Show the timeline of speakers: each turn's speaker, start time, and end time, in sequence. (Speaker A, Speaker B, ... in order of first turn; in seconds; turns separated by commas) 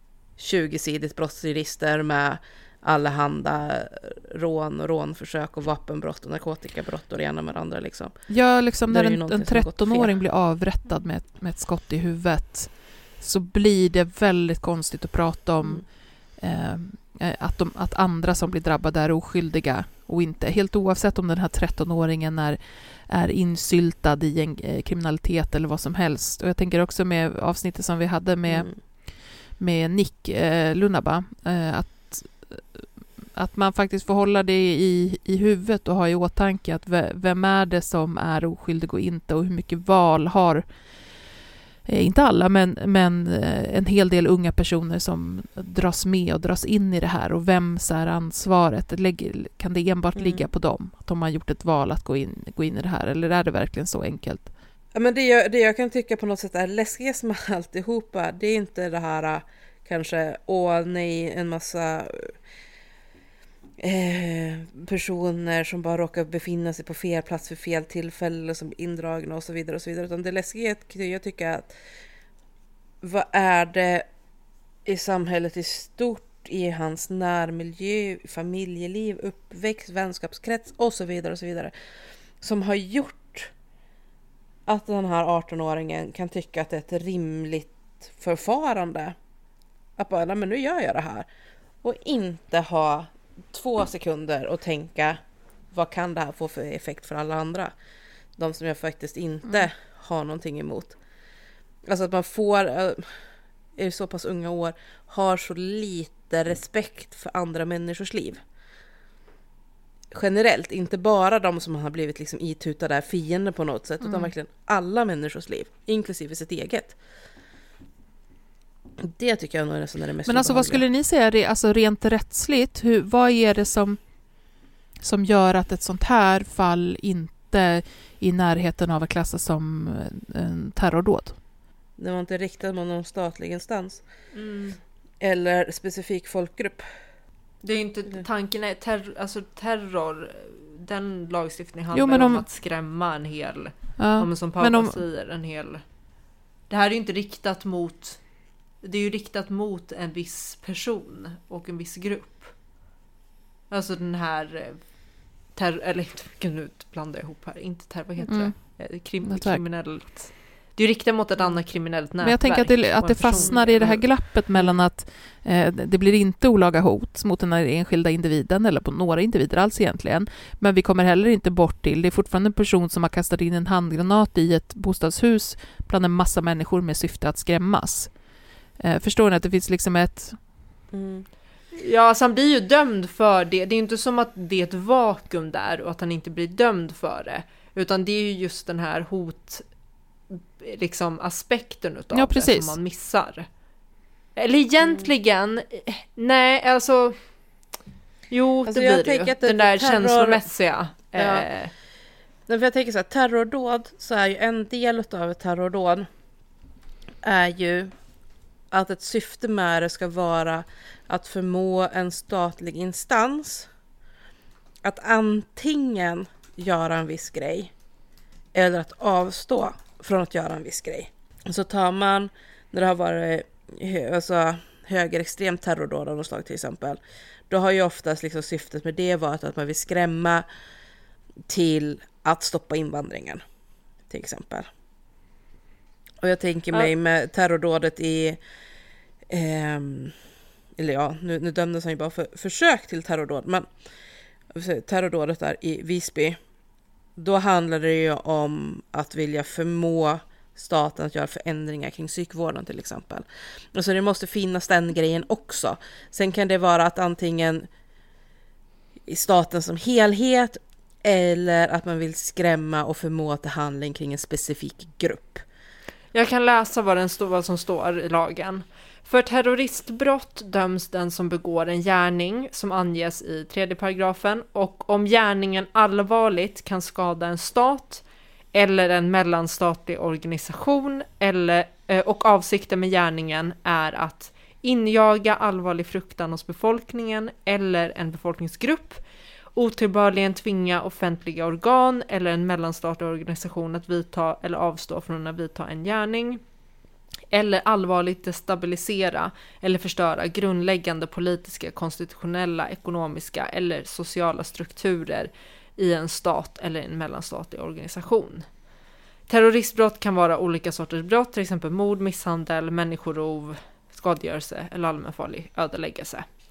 Speaker A: 0.4-10.2, Speaker B: 8.3-41.3, Speaker A: 28.5-28.8, Speaker B: 41.9-54.5, Speaker A: 50.2-50.5, Speaker A: 54.9-62.4, Speaker A: 63.8-71.7, Speaker A: 73.0-74.1, Speaker A: 74.9-81.7, Speaker A: 82.4-83.5, Speaker A: 84.7-89.2, Speaker A: 90.0-91.3, Speaker A: 91.8-95.2, Speaker A: 95.7-97.7, Speaker A: 98.4-101.0, Speaker A: 101.9-103.1, Speaker A: 103.8-108.4, Speaker A: 110.1-117.0, Speaker B: 114.0-114.3, Speaker A: 119.0-120.8, Speaker B: 120.3-124.0, Speaker B: 125.0-131.4, Speaker A: 132.0-134.0, Speaker C: 134.3-134.8, Speaker A: 135.2-136.9, Speaker C: 137.6-145.8, Speaker B: 141.9-142.5, Speaker B: 144.0-145.0, Speaker C: 146.7-148.2, Speaker C: 148.8-152.6, Speaker C: 153.7-154.8, Speaker C: 155.5-164.1, Speaker B: 158.3-159.7, Speaker B: 162.2-178.1, Speaker B: 178.8-180.4, Speaker A: 180.9-181.3, Speaker C: 181.8-189.7, Speaker C: 190.3-193.5, Speaker B: 192.1-192.8, Speaker C: 194.4-197.2, Speaker C: 198.3-201.7, Speaker A: 198.7-200.4, Speaker A: 201.2-201.5, Speaker A: 202.5-206.1, Speaker A: 207.2-207.9, Speaker A: 208.7-213.7, Speaker A: 214.8-217.7, Speaker A: 218.5-230.4, Speaker A: 231.5-233.4, Speaker A: 234.1-234.7, Speaker A: 236.2-238.4, Speaker A: 239.3-240.2, Speaker A: 240.8-243.7, Speaker A: 244.5-246.4, Speaker A: 247.2-257.7, Speaker A: 259.1-265.4, Speaker C: 266.1-278.0, Speaker C: 278.5-289.0, Speaker C: 289.6-296.4, Speaker C: 297.3-308.5, Speaker C: 309.3-316.3